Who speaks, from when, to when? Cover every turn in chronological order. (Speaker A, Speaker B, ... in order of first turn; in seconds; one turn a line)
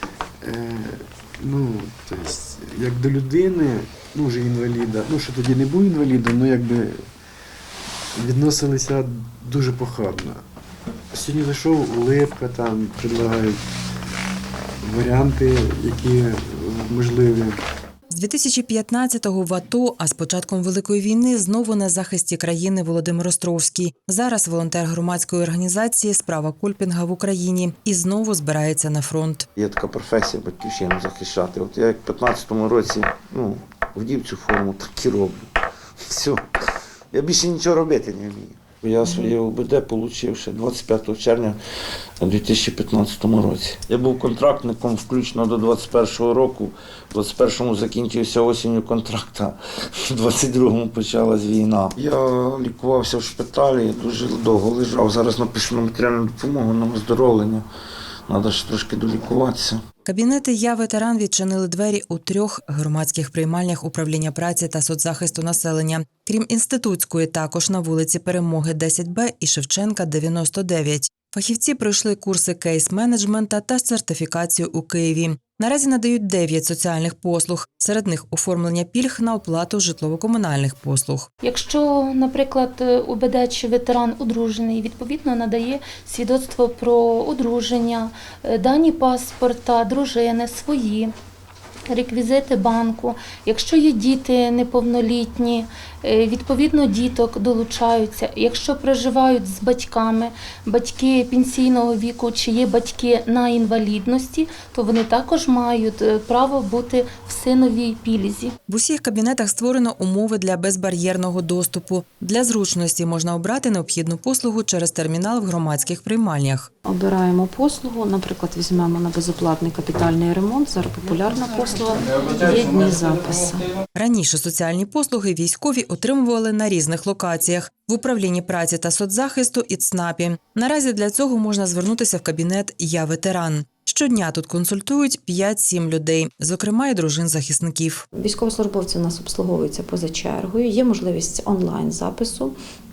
Speaker A: 0.4-7.0
Speaker A: 8.2-10.4
Speaker A: 11.1-13.6
Speaker A: 14.8-17.6
Speaker B: 18.1-29.5
Speaker C: 29.6-35.5
Speaker C: 36.0-36.4
Speaker C: 37.1-41.6
Speaker C: 42.2-49.5
Speaker C: 50.1-57.6
Speaker C: 58.3-59.8
Speaker B: 60.0-81.3
Speaker D: 81.4-91.1
Speaker D: 91.9-108.5
Speaker B: 108.7-116.7
Speaker E: 116.8-123.7
Speaker B: 123.9-138.0
Speaker E: 138.1-142.5